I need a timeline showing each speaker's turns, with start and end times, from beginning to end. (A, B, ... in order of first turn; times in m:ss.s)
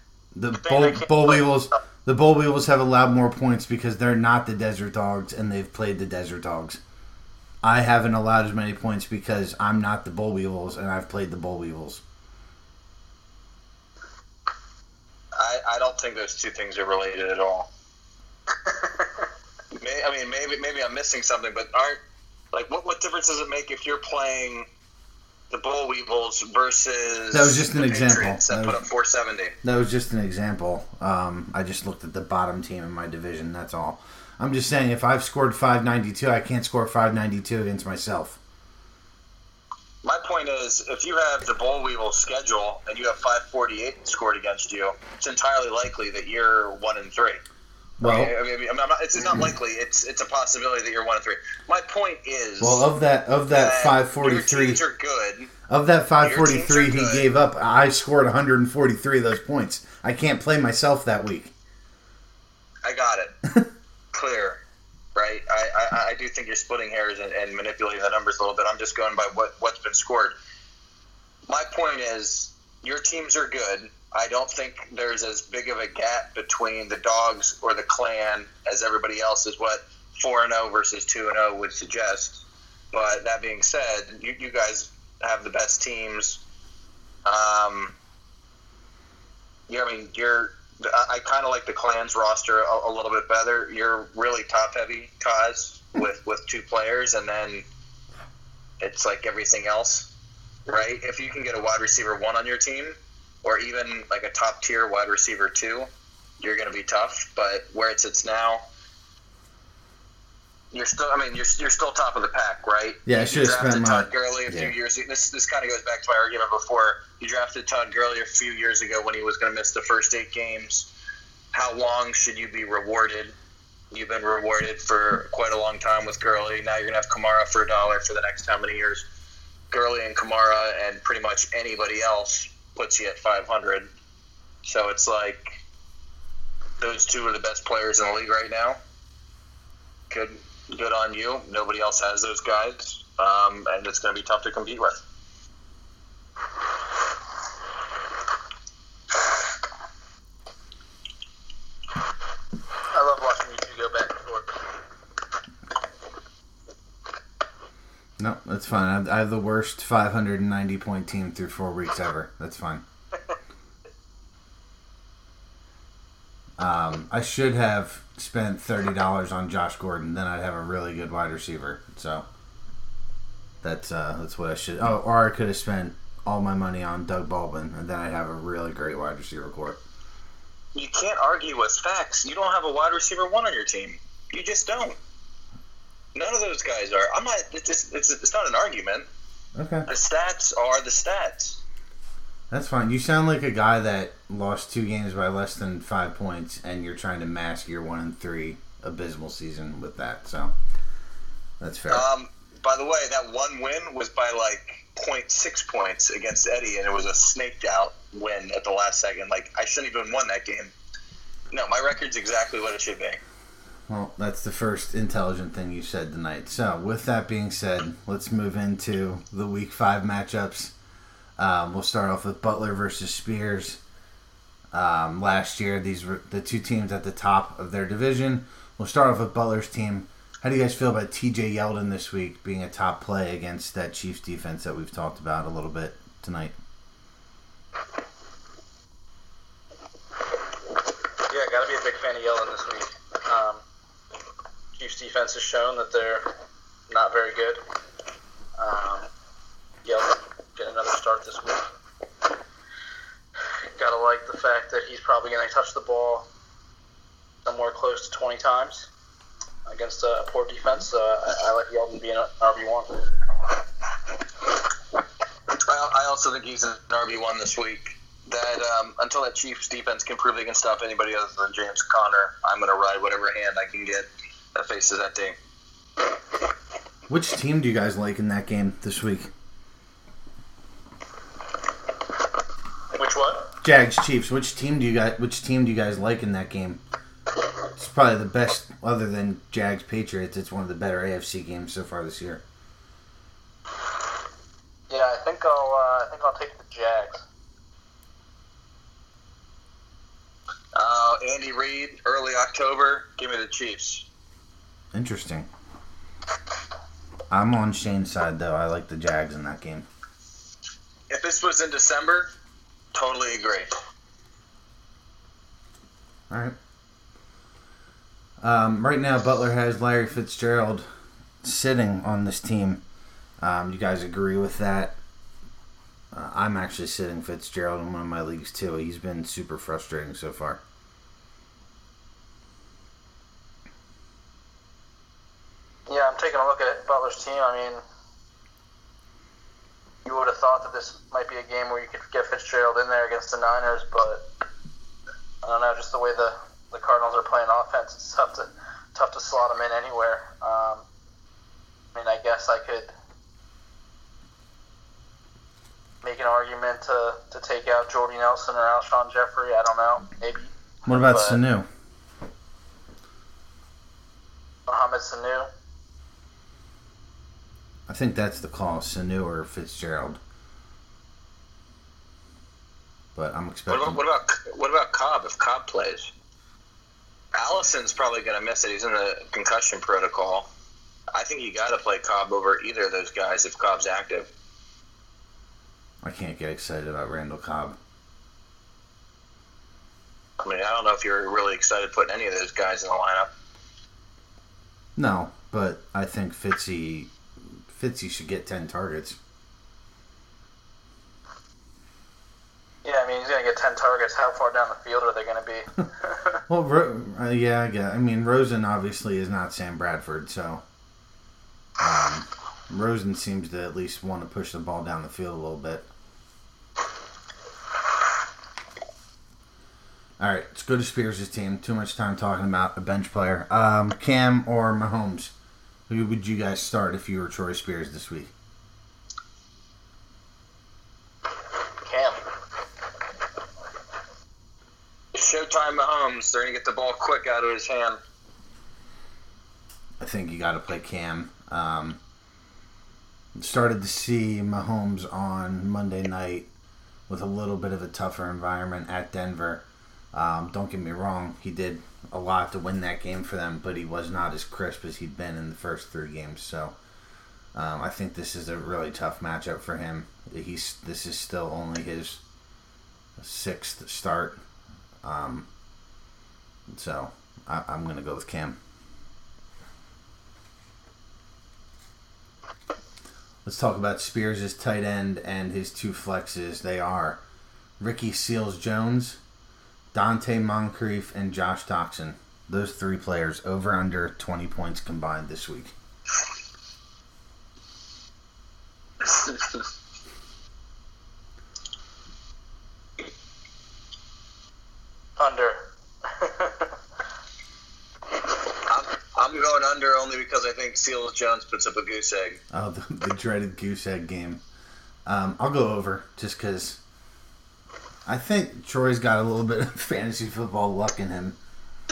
0:00.4-0:06.8 A
0:00.7-0:01.5 B
0:07.6-0:12.0 A
0:15.4-0:17.7 C
0:19.8-0:22.0 C
0:22.5-0:24.7 C
0:25.5-0:29.6 C
0:27.3-0:28.8 A
0:29.6-0:38.4 A
0:40.0-0:47.4 C
0:48.0-0:48.3 A
0:48.0-0:52.9 C
0:52.6-0:54.8 A
0:53.5-0:55.5 C
0:55.7-1:01.5 A
0:56.2-0:57.2 C
1:02.8-1:03.3 C
1:04.1-1:04.6 C
1:05.2-1:10.3 C
1:11.5-1:26.4 C
1:27.2-1:27.9 C
1:29.7-1:37.6 C
1:38.8-1:40.1 C
1:40.7-1:45.9 C
1:46.4-1:48.6 C
1:50.7-2:00.9 C
1:53.1-1:54.8 A
2:01.5-2:03.3 C
2:03.9-2:09.0 C
2:09.7-2:13.9 C
2:14.6-2:15.6 C
2:16.8-2:18.8 C
2:20.1-2:25.0 C
2:32.9-2:34.6 B
2:38.2-2:42.8 A
2:46.6-2:52.3 A
2:53.6-2:59.8 A
3:00.8-3:05.0 C
3:06.2-3:09.1 C
3:09.6-3:09.9 A
3:09.9-3:11.6 C
3:12.5-3:20.5 A
3:21.6-3:22.1 A
3:21.9-3:30.7 C
3:31.5-3:33.2 C
3:33.9-3:40.7 A
3:41.4-3:43.8 A
3:44.7-3:56.6 A
4:01.3-4:03.6 B
4:04.8-4:06.3 B
4:06.9-4:07.6 B
4:08.6-4:09.1 B
4:09.8-4:11.7 B
4:13.8-4:16.3 B
4:17.4-4:18.9 B
4:19.7-4:23.0 B
4:25.5-4:35.4 C
4:37.1-4:39.3 A
4:42.9-4:43.5 B
4:43.6-4:46.8 A
4:47.8-4:52.4 A
4:54.9-4:57.2 B
5:00.8-5:04.1 C
5:04.9-5:05.5 A
5:07.3-5:09.9 A
5:11.1-5:12.3 C
5:12.9-5:13.7 C
5:16.3-5:16.6 A
5:18.4-5:20.9 A
5:21.4-5:22.8 A
5:23.4-5:25.0 A
5:26.1-5:30.6 A
5:35.9-5:37.8 B
5:40.0-5:44.3 B
5:45.4-5:50.8 B
5:51.9-5:52.9 B
5:56.0-6:01.4 B
6:00.9-6:01.7 A
6:04.7-6:05.5 B
6:07.9-6:10.2 A
6:13.2-6:14.0 A
6:13.7-6:16.1 C
6:17.4-6:20.5 C
6:21.1-6:24.3 C
6:26.0-6:27.8 A
6:30.4-6:33.3 C
6:35.0-6:39.2 A
6:42.8-6:46.4 B
6:46.5-6:50.6 A
6:51.8-6:55.9 A
7:00.2-7:05.3 A
7:05.9-7:08.3 A
7:11.8-7:12.2 B
7:15.1-7:18.0 C
7:20.0-7:22.0 A
7:23.4-7:26.5 A
7:27.1-7:36.8 A
7:37.5-7:42.2 A
7:43.2-7:44.4 A
7:45.0-7:45.5 A
7:46.7-7:48.6 A
7:53.4-7:57.2 A
7:57.8-7:59.2 A
7:59.9-8:05.7 A
8:09.1-8:09.4 C
8:15.2-8:16.7 B
8:18.7-8:22.4 C
8:22.5-8:24.4 A
8:25.1-8:26.8 A
8:28.1-8:31.4 A